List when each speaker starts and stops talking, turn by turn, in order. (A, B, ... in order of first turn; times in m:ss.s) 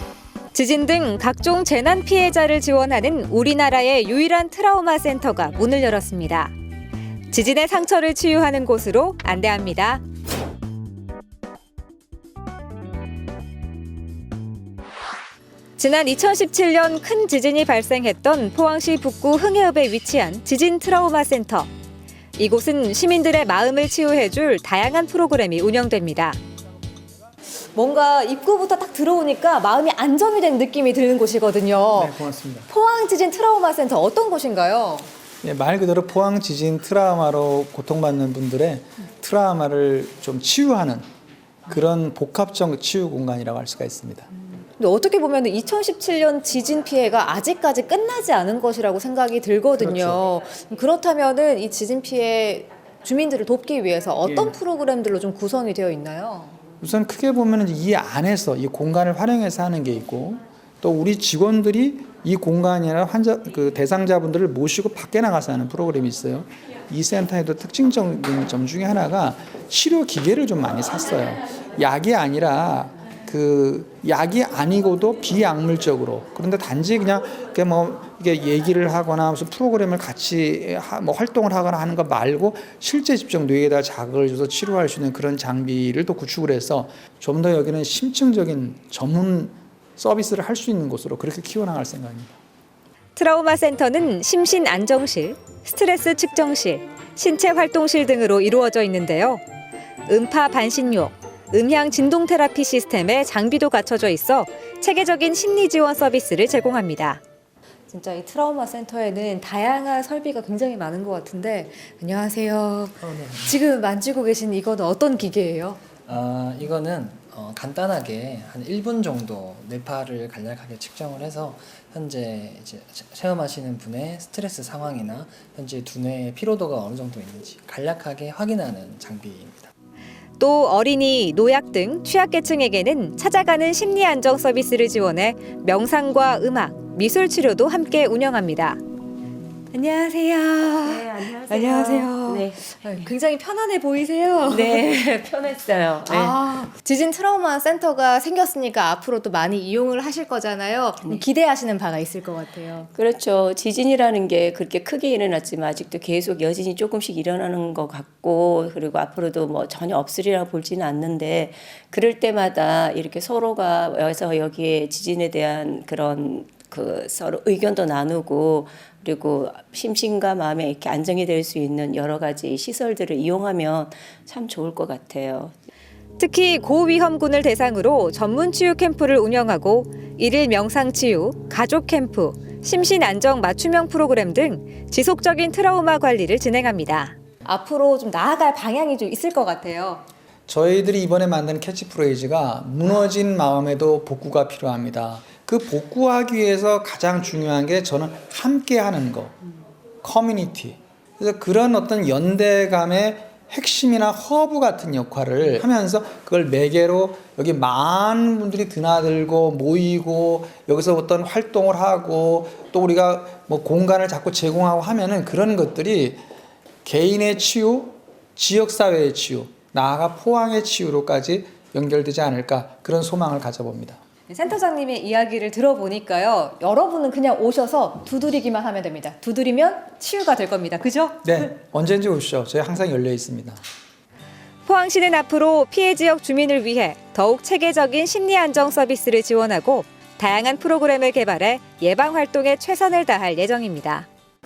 0:00.5-0:06.5 A
0:07.3-0:10.0 A
0:15.8-0:21.7 A
0:22.4-0:26.4 A
0:27.8-0:32.2 A
0:32.0-0:32.7 B
0:32.7-0:35.1 A
0:35.4-0:41.0 B
0:41.7-0:44.3 B
0:44.8-0:56.6 A
0:49.8-0:50.2 B
0:54.3-0:54.6 B
0:56.8-1:32.3 B
1:33.2-1:39.4 A
1:40.1-1:47.2 A
1:47.9-1:55.8 A
1:53.0-1:53.5 C
1:56.0-2:09.7 C
2:10.4-2:18.8 A
2:19.7-2:24.8 A
2:20.8-2:22.7 D
2:24.5-2:26.4 D
2:26.1-2:32.9 A
2:32.9-2:55.6 D
2:56.2-3:10.0 A
3:10.5-3:19.4 B
3:20.0-3:36.2 B
3:36.8-3:44.0 B
3:44.3-3:51.3 A
3:51.2-3:53.6 B
3:54.7-4:04.1 A